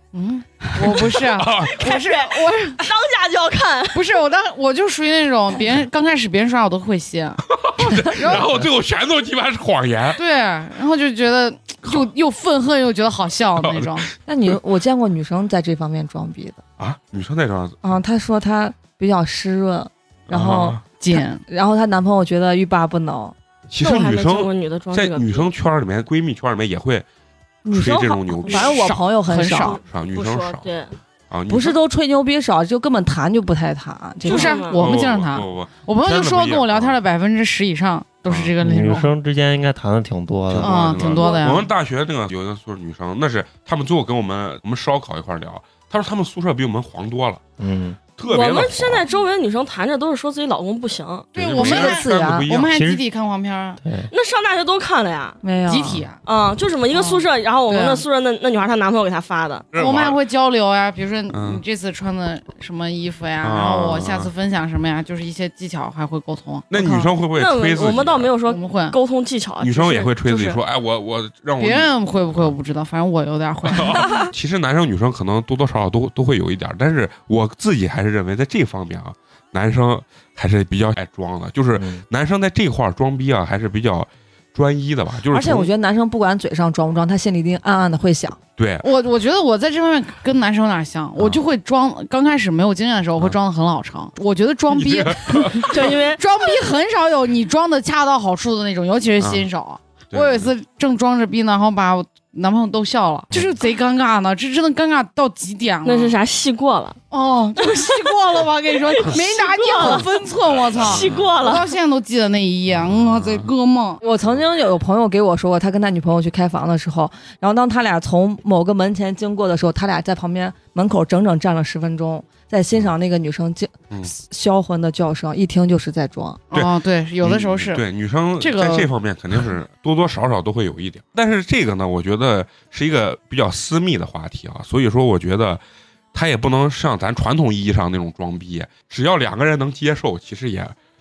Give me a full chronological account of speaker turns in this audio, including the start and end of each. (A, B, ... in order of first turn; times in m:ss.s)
0:00.1-0:02.8 A
0:01.0-0:01.8 B
0:01.6-0:04.0 C
0:03.9-0:08.6 A
0:07.5-0:10.2 B
0:10.2-0:14.1 A
0:13.6-0:14.0 B
0:14.3-0:16.6 D
0:16.8-0:17.9 B
0:17.8-0:23.4 D
0:20.3-0:20.8 B
0:21.0-0:21.4 A
0:23.7-0:27.1 B
0:23.8-0:25.5 C
0:27.7-0:29.0 B
0:27.7-0:29.8 D
0:27.8-0:28.7 C
0:28.6-0:29.8 A
0:29.6-0:31.0 C
0:29.8-0:30.7 B
0:31.3-0:31.8 B
0:31.5-0:34.6 D
0:34.2-0:34.8 C
0:34.2-0:39.1 A
0:34.7-0:37.0 B
0:38.6-0:41.2 E
0:40.5-0:47.4 B
0:40.6-0:41.7 A
0:41.2-0:41.6 C
0:47.6-0:48.0 E
0:48.1-0:49.1 B
0:48.3-0:51.3 C
0:51.4-0:53.8 A
0:51.4-0:52.8 B
0:51.5-0:52.5 D
0:52.7-0:53.0 E
0:53.8-0:54.1 E
0:54.1-0:55.4 C
0:55.4-0:56.0 D
0:55.7-0:56.2 A
0:56.2-0:59.7 C
0:56.9-0:58.0 A
0:59.7-1:00.2 B
0:59.8-1:07.1 A
1:01.3-1:01.6 B
1:03.4-1:04.3 B
1:06.7-1:08.3 B
1:07.4-1:10.6 C
1:08.5-1:09.0 A
1:09.6-1:12.5 B
1:11.6-1:14.3 A
1:13.7-1:25.7 B
1:21.8-1:22.0 E
1:25.3-1:28.4 D
1:28.6-1:28.9 B
1:28.8-1:46.2 A
1:34.7-1:35.9 B
1:35.6-1:36.2 C
1:39.2-1:39.5 B
1:40.1-1:40.5 B
1:45.8-1:47.0 C
1:47.1-1:54.0 A
1:47.6-1:50.1 C
1:50.8-1:51.4 B
1:50.8-1:51.7 C
1:52.8-1:53.5 B
1:54.0-2:06.4 D
2:06.5-2:07.8 A
2:06.5-2:15.6 B
2:08.4-2:08.9 A
2:16.1-2:20.8 B